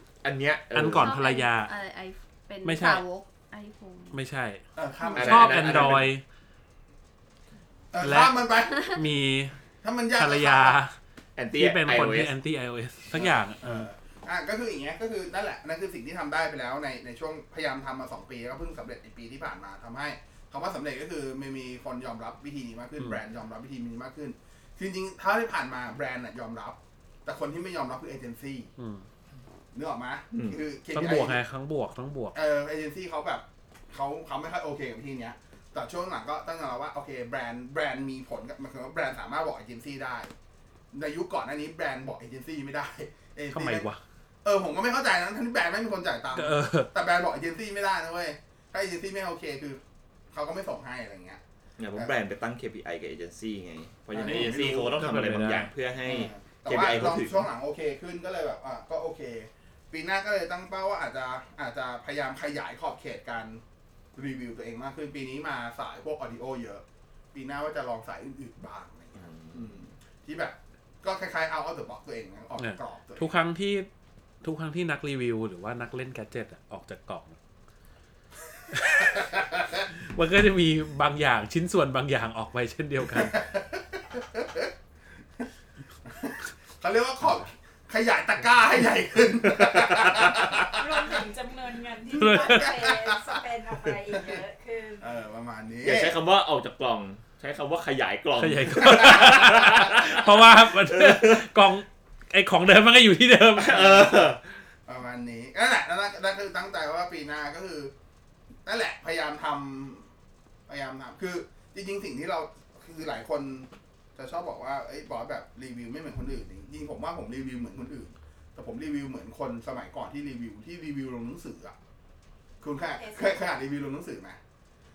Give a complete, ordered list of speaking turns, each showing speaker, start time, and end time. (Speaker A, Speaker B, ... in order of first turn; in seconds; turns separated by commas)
Speaker A: 0.2-1.2, Speaker B: 0.7-1.7, Speaker C: 0.9-4.2, Speaker B: 2.6-3.0, Speaker B: 4.1-4.6, Speaker D: 4.8-6.0, Speaker A: 5.2-6.1, Speaker B: 5.2-6.2, Speaker D: 7.9-8.9, Speaker B: 8.0-9.6, Speaker D: 9.8-10.8, Speaker B: 10.2-10.9, Speaker A: 11.4-12.3, Speaker B: 11.5-13.9, Speaker D: 13.1-28.7, Speaker B: 28.8-29.0, Speaker D: 29.7-31.4, Speaker A: 30.3-30.6, Speaker B: 30.9-32.4, Speaker D: 32.3-40.3, Speaker D: 40.9-43.9, Speaker B: 43.5-44.0, Speaker D: 44.4-49.8, Speaker B: 46.4-46.9, Speaker D: 50.3-51.4, Speaker A: 51.8-57.5, Speaker D: 54.1-55.0, Speaker B: 54.2-55.7, Speaker D: 56.1-63.6, Speaker D: 64.2-73.3, Speaker A: 69.2-69.8, Speaker B: 72.6-73.9, Speaker B: 74.4-77.4, Speaker B: 78.7-79.2, Speaker D: 79.0-79.9, Speaker B: 80.1-83.4, Speaker D: 83.1-84.7, Speaker D: 86.1-91.2, Speaker A: 89.7-90.1, Speaker E: 90.7-95.1, Speaker B: 92.1-92.8, Speaker D: 92.4-93.4, Speaker D: 94.1-94.4, Speaker D: 95.0-96.2, Speaker A: 95.8-101.5, Speaker B: 98.4-104.1, Speaker A: 103.5-104.4, Speaker D: 103.9-104.2, Speaker D: 104.9-107.9, Speaker D: 108.7-110.1, Speaker D: 110.7-121.8, Speaker D: 122.6-124.4, Speaker E: 122.8-123.5